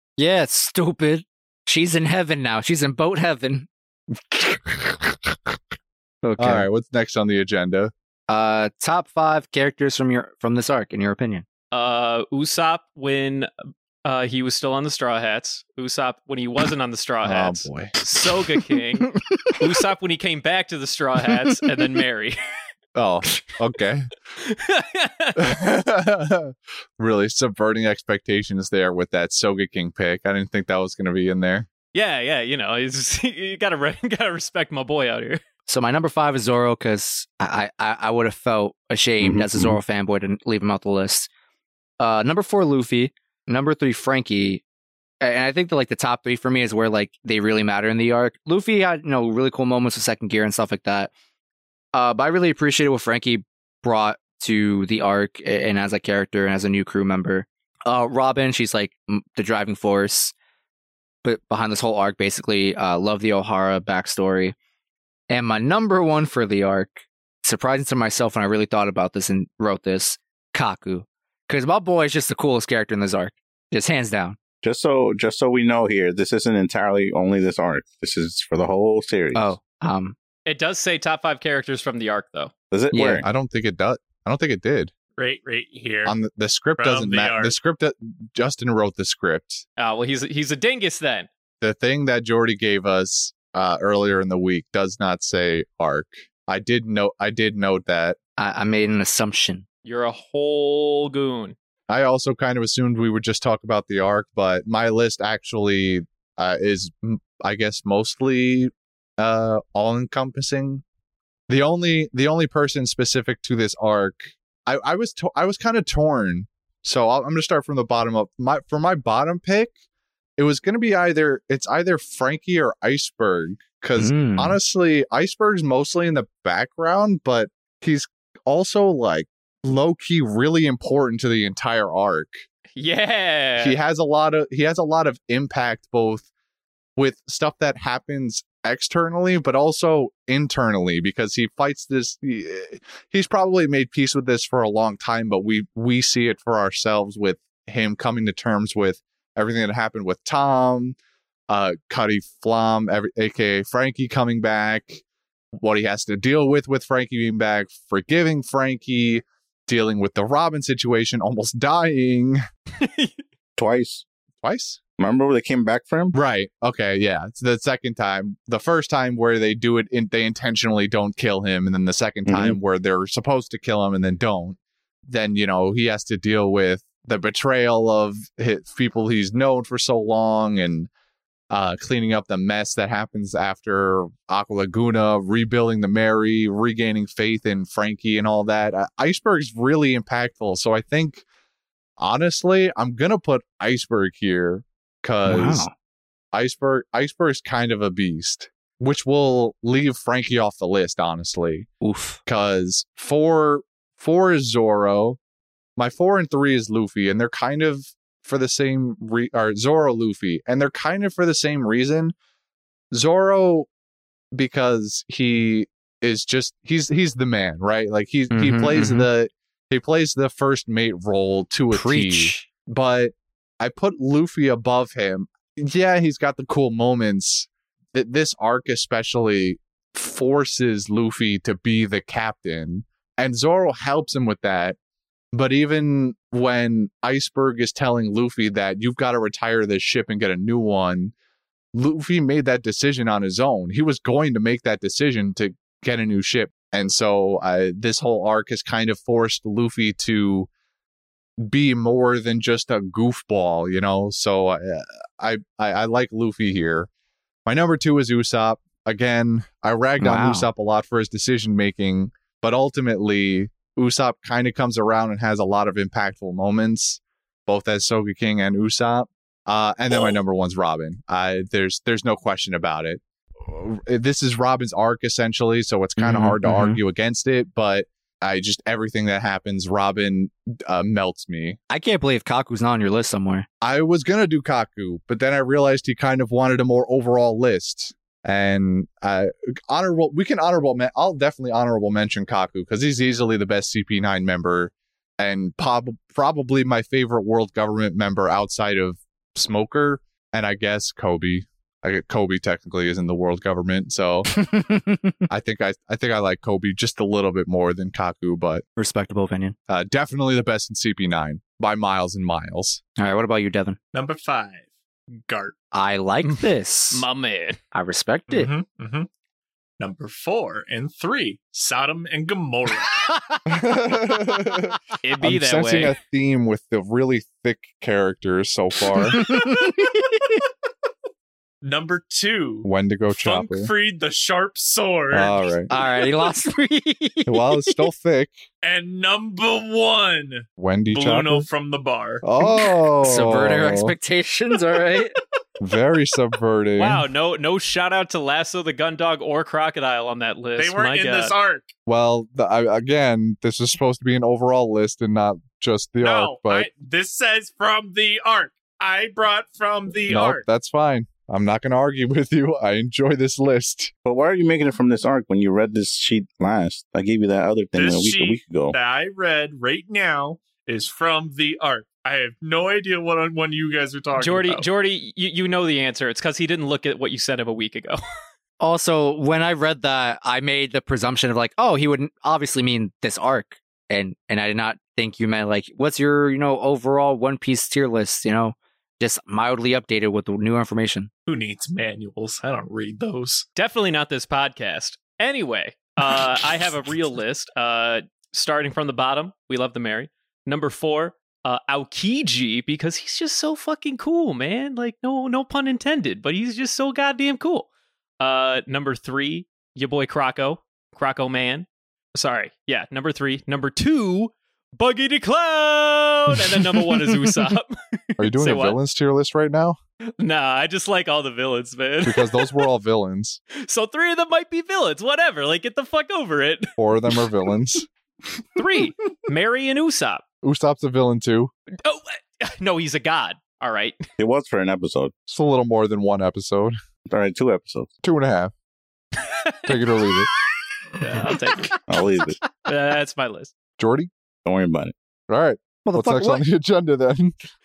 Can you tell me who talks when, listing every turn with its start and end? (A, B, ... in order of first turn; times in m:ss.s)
0:00.2-0:03.7 A
0:04.3-0:05.4 B
0:06.2-0:06.7 A
0:06.4-0:07.9 B
0:08.3-0:11.4 A
0:11.7-0:13.5 C
0:14.0-0:22.4 C
0:17.2-0:18.0 B
0:23.0-0:24.1 B
0:24.4-0:25.5 C
0:25.4-0:31.7 B
0:31.9-0:35.4 C
0:35.7-0:41.3 A
0:39.2-0:39.8 D
0:42.0-0:44.6 A
0:45.2-0:51.1 A
0:51.9-1:00.3 A
1:01.2-1:04.6 A
1:05.3-1:14.4 A
1:14.6-1:19.6 D
1:19.3-1:20.2 A
1:20.5-1:22.5 C
1:22.7-1:23.3 D
1:22.9-1:23.2 A
1:23.2-1:24.9 B
1:25.2-1:26.2 E
1:26.1-1:29.6 B
1:26.8-1:27.6 E
1:29.8-1:31.3 C
1:31.6-1:38.2 B
1:38.4-1:39.6 A
1:39.8-1:41.6 C
1:41.9-1:50.8 B
1:51.5-1:59.7 B
2:00.4-2:12.4 B
2:04.0-2:04.6 A
2:12.8-2:13.8 C
2:13.6-2:16.3 B
2:17.0-2:31.0 B
2:31.5-2:35.0 B
2:35.6-2:42.4 B
2:42.8-2:43.1 C
2:43.6-2:44.0 D
2:44.4-2:44.8 B
2:45.0-2:46.2 D
2:46.1-3:00.9 B
2:52.3-2:52.6 D
3:01.5-3:11.2 B
3:12.0-3:15.7 B
3:15.2-3:15.7 A
3:16.3-3:21.7 B
3:21.8-3:22.2 A
3:22.3-3:25.2 B
3:25.8-3:32.1 B
3:32.9-3:33.7 B
3:34.3-3:54.8 B
3:38.3-3:39.1 A
3:41.7-3:42.5 A
3:55.3-4:01.1 B
4:01.7-4:10.5 B
4:11.4-4:16.9 B
4:17.5-4:41.6 B
4:20.0-4:20.5 A
4:36.0-4:36.8 A
4:41.7-4:43.5 A
4:43.6-5:04.4 B
5:04.4-5:05.2 A
5:05.3-5:08.6 B
5:08.8-5:09.6 A
5:09.7-5:12.8 B
5:13.0-5:13.8 A
5:13.9-5:14.7 E
5:15.3-5:15.6 E
5:15.7-5:17.0 A
5:16.2-5:17.6 C
5:17.7-5:18.5 A
5:18.3-5:19.1 E
5:19.8-5:23.0 E
5:23.5-5:29.4 B
5:25.0-5:26.0 C
5:29.1-5:30.0 A
5:31.6-5:35.6 E
5:32.6-5:33.7 B
5:35.1-5:35.7 B
5:35.7-5:37.8 A
5:37.3-5:38.4 B
5:38.6-5:42.2 E
5:40.6-5:41.5 B
5:42.2-5:44.0 B
5:43.0-5:45.2 A
5:45.6-5:47.0 B
5:46.8-5:51.3 C
5:50.6-5:51.7 E
5:51.9-5:56.7 B
5:56.0-6:00.5 E
6:00.1-6:03.9 B
6:04.0-6:08.8 D
6:07.8-6:14.7 E
6:14.2-6:18.0 C
6:18.6-6:31.1 A
6:31.3-6:33.5 E
6:33.6-6:47.7 C
6:48.2-6:58.8 C
6:58.2-6:59.8 B
7:00.2-7:02.7 C
7:02.0-7:03.4 B
7:03.6-7:06.7 C
7:06.8-7:07.9 B
7:08.6-7:10.2 C
7:10.4-7:11.5 B
7:11.8-7:14.0 C
7:14.2-7:15.1 D
7:15.3-7:16.8 B
7:17.1-7:17.9 D
7:18.0-7:18.5 B
7:19.3-7:19.7 C
7:19.7-7:20.3 B
7:21.0-7:21.8 C
7:21.9-7:22.4 D
7:22.6-7:23.5 C
7:23.8-7:24.1 B
7:24.4-7:24.9 D
7:25.3-7:27.4 B
7:25.8-7:26.4 A